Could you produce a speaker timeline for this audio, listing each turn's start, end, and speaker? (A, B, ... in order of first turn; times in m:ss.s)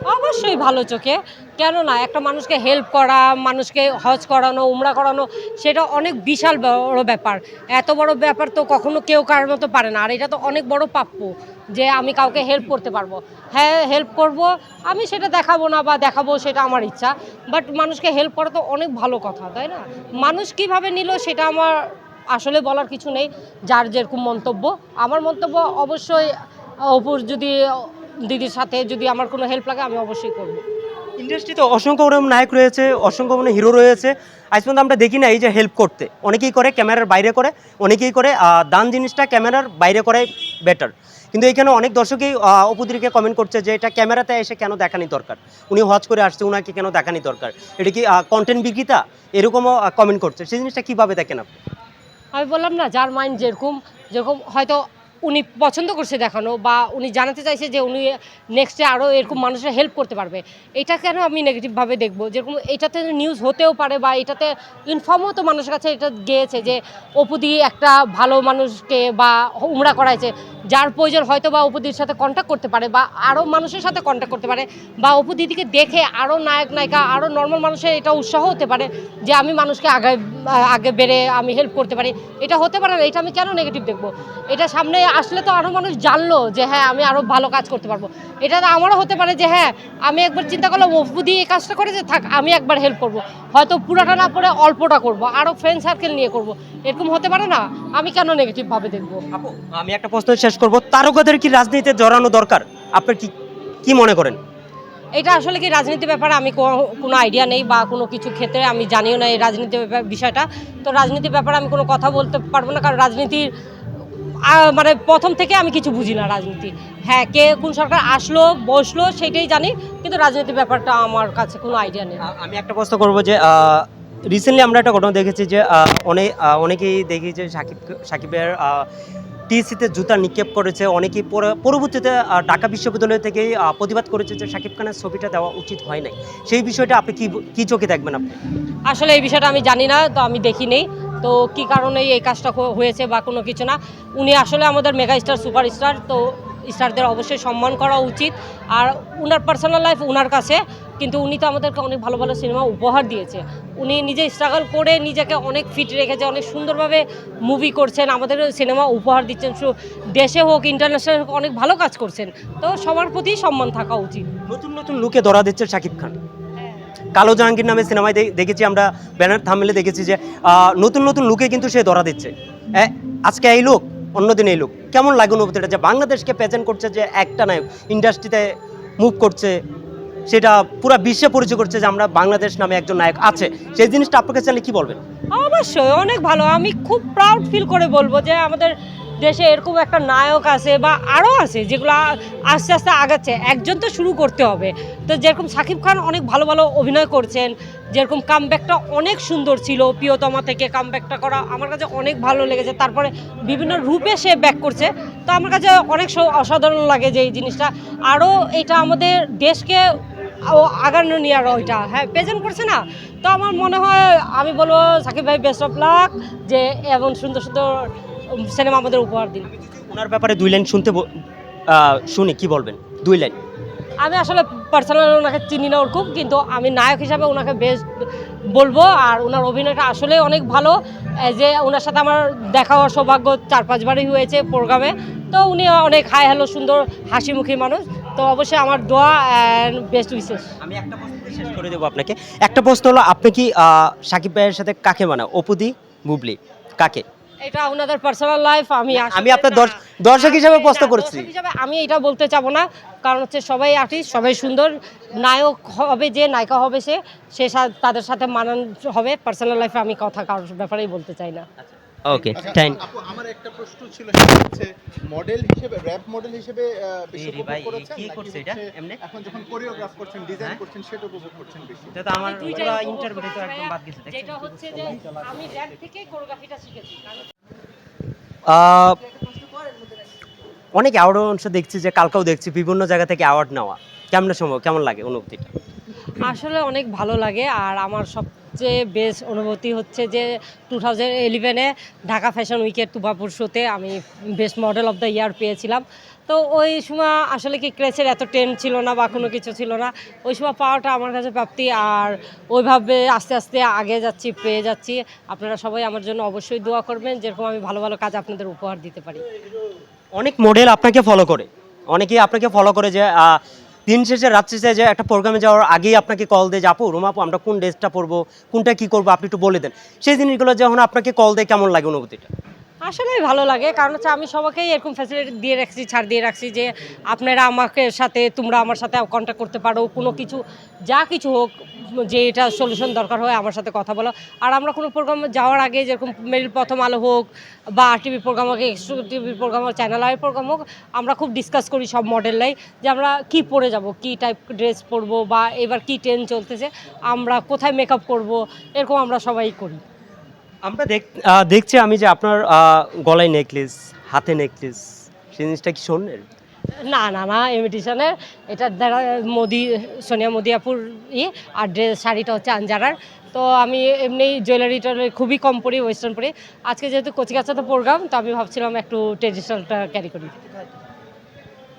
0:00.1-0:21.8 A
0:22.3-0:26.3 A
0:26.9-0:30.6 A
0:31.2-0:51.5 B
0:52.4-1:39.2 A
1:39.3-1:43.3 B
1:43.8-1:44.4 B
1:45.2-1:53.5 A
1:54.5-2:02.2 A
2:02.2-2:08.9 B
2:09.5-2:18.4 B
2:18.9-2:44.3 A
2:44.5-2:46.2 B
2:47.2-2:59.6 B
3:00.3-3:05.0 B
3:05.4-3:12.0 A
3:12.5-3:29.8 A
3:30.4-3:39.5 A
3:39.4-3:43.4 B
3:44.0-4:00.6 A
4:00.6-4:07.0 B
4:07.4-4:21.5 A
4:08.9-4:11.3 B
4:21.6-4:22.8 B
4:22.3-4:32.0 C
4:27.1-4:29.0 B
4:31.9-4:35.0 B
4:32.1-4:37.3 A
4:38.5-4:39.2 B
4:40.8-4:45.5 B
4:46.2-5:09.3 A
5:10.2-5:22.3 B
5:22.8-5:49.8 A
5:50.6-5:56.2 B
5:56.9-6:10.3 A